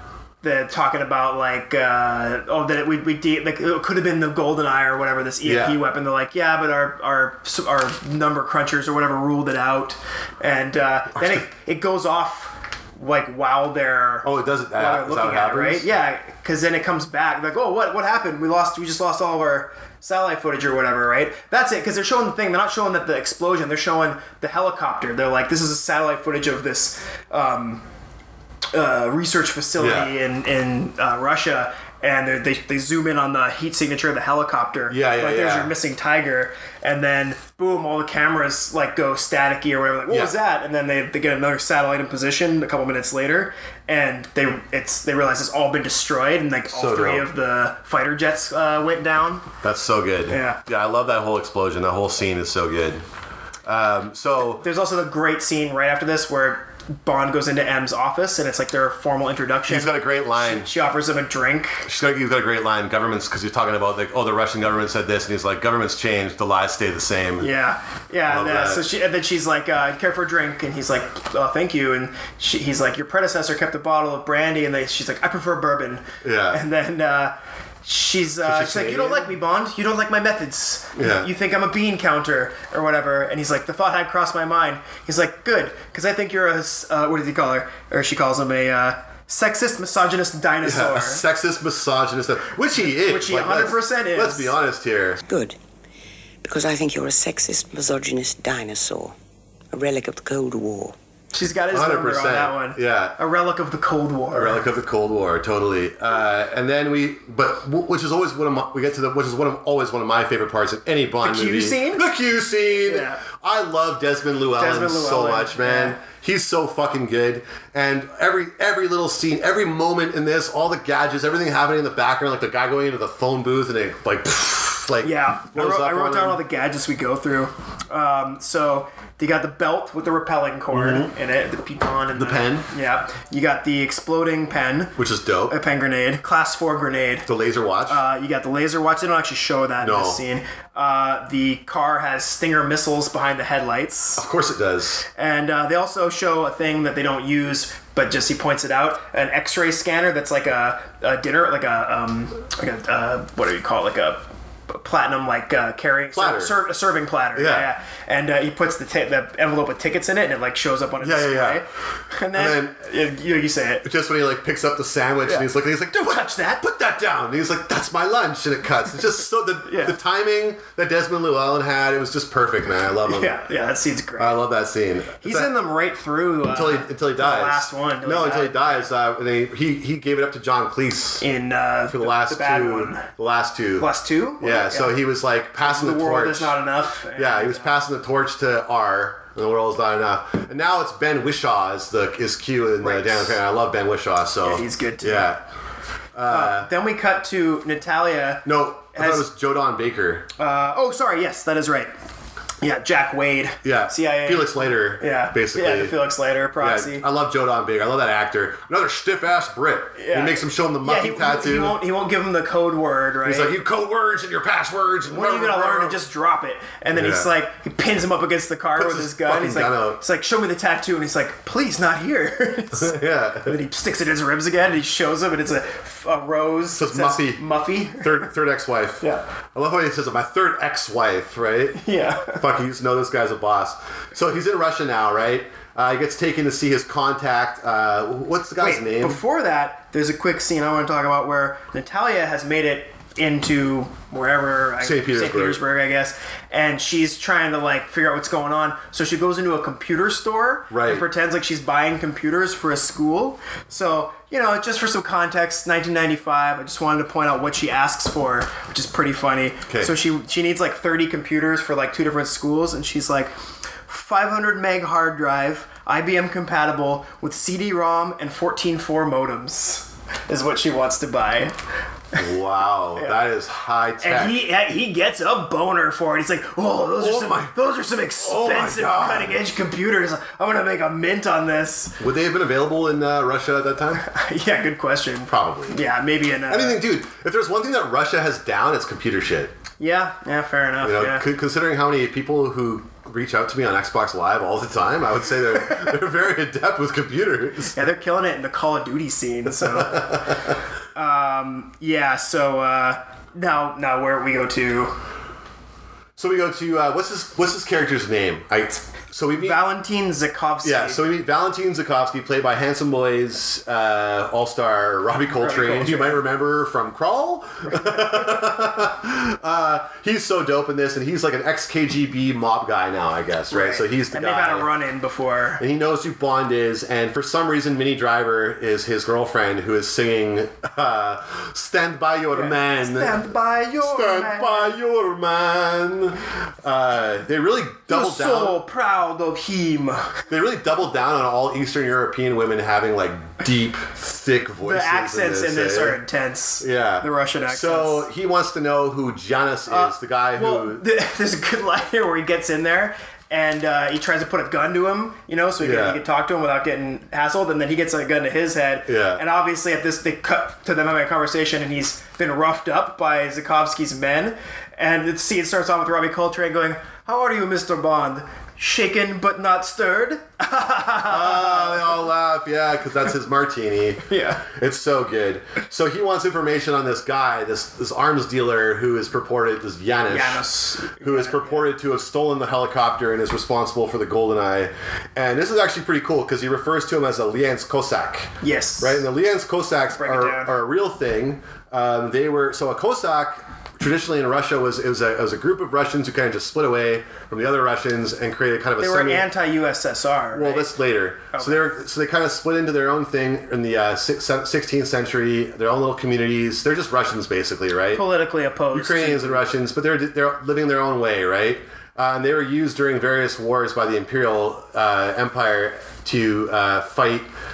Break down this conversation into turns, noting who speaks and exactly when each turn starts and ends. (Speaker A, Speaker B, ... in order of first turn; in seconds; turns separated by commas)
Speaker A: 0.4-27.8, Speaker B: 5.4-5.8, Speaker B: 11.1-11.4, Speaker B: 14.2-15.9, Speaker A: 28.7-49.5, Speaker B: 29.8-30.1, Speaker B: 34.9-35.7, Speaker B: 40.1-40.3, Speaker B: 46.7-47.3, Speaker B: 49.6-53.0, Speaker A: 50.3-50.6, Speaker B: 53.6-54.6, Speaker A: 54.4-61.9, Speaker B: 59.7-60.7, Speaker B: 61.8-67.5, Speaker A: 67.4-91.2, Speaker B: 68.3-68.8, Speaker B: 76.2-76.6, Speaker B: 78.4-79.3, Speaker B: 81.0-81.3, Speaker B: 90.6-95.2, Speaker A: 92.8-94.5, Speaker C: 95.2-95.6, Speaker C: 96.4-99.2, Speaker C: 99.7-101.0, Speaker A: 101.3-104.6, Speaker B: 101.7-103.2, Speaker B: 104.3-126.4, Speaker A: 111.2-112.0, Speaker A: 112.8-113.2, Speaker A: 114.5-116.0, Speaker A: 125.0-134.9, Speaker B: 130.7-131.1, Speaker B: 132.1-132.7, Speaker B: 134.9-135.6, Speaker A: 135.5-137.3, Speaker B: 137.2-138.0, Speaker A: 137.9-144.2, Speaker B: 139.8-140.2, Speaker B: 144.2-145.0, Speaker A: 145.2-163.9, Speaker B: 156.1-156.6, Speaker B: 157.3-157.7, Speaker B: 161.0-161.6, Speaker B: 162.3-162.8, Speaker B: 163.8-173.4, Speaker A: 165.2-166.6, Speaker A: 169.6-169.9, Speaker A: 173.0-174.4, Speaker B: 174.2-175.5, Speaker A: 175.2-178.9, Speaker B: 176.5-181.2, Speaker A: 181.2-183.1, Speaker B: 181.9-186.6, Speaker A: 183.8-185.0, Speaker A: 185.6-187.8, Speaker B: 187.1-195.4, Speaker A: 192.8-193.4, Speaker A: 194.4-195.3, Speaker B: 196.1-196.7, Speaker A: 196.3-199.3, Speaker B: 198.4-200.3, Speaker A: 200.4-201.9, Speaker A: 202.6-207.1, Speaker B: 203.6-206.0, Speaker B: 206.6-211.8, Speaker A: 210.0-213.6, Speaker B: 213.2-216.0, Speaker A: 215.1-228.3, Speaker B: 216.9-217.3, Speaker B: 218.8-220.0, Speaker B: 222.7-223.6, Speaker B: 226.7-239.2, Speaker A: 231.8-232.4, Speaker A: 238.6-263.3, Speaker B: 244.8-245.6, Speaker B: 250.7-251.1, Speaker B: 259.7-259.9, Speaker A: 263.9-271.6, Speaker B: 272.1-274.4, Speaker A: 274.0-282.0, Speaker B: 277.0-279.4, Speaker B: 282.0-284.1, Speaker A: 284.0-286.8, Speaker B: 285.3-285.8, Speaker B: 286.5-289.5, Speaker A: 289.8-291.3, Speaker B: 290.8-297.8, Speaker A: 297.7-300.4, Speaker B: 299.5-300.5, Speaker A: 300.9-304.9, Speaker B: 306.2-309.6, Speaker A: 309.4-311.0, Speaker B: 310.6-324.7, Speaker A: 315.3-316.2, Speaker A: 317.7-318.4, Speaker A: 323.5-325.6, Speaker B: 325.6-333.3, Speaker A: 332.3-334.8, Speaker B: 333.8-338.6, Speaker A: 337.9-340.2, Speaker B: 340.3-346.0, Speaker A: 344.6-348.0, Speaker B: 346.6-350.8, Speaker A: 349.7-371.9, Speaker B: 355.6-356.0, Speaker B: 358.9-359.2, Speaker B: 371.0-380.5, Speaker A: 374.1-374.4, Speaker A: 380.1-381.7, Speaker B: 381.0-399.3, Speaker A: 388.4-389.0, Speaker A: 389.9-390.5, Speaker A: 398.8-400.8, Speaker B: 400.3-408.0, Speaker A: 401.3-401.7, Speaker A: 407.9-409.5, Speaker B: 408.7-417.3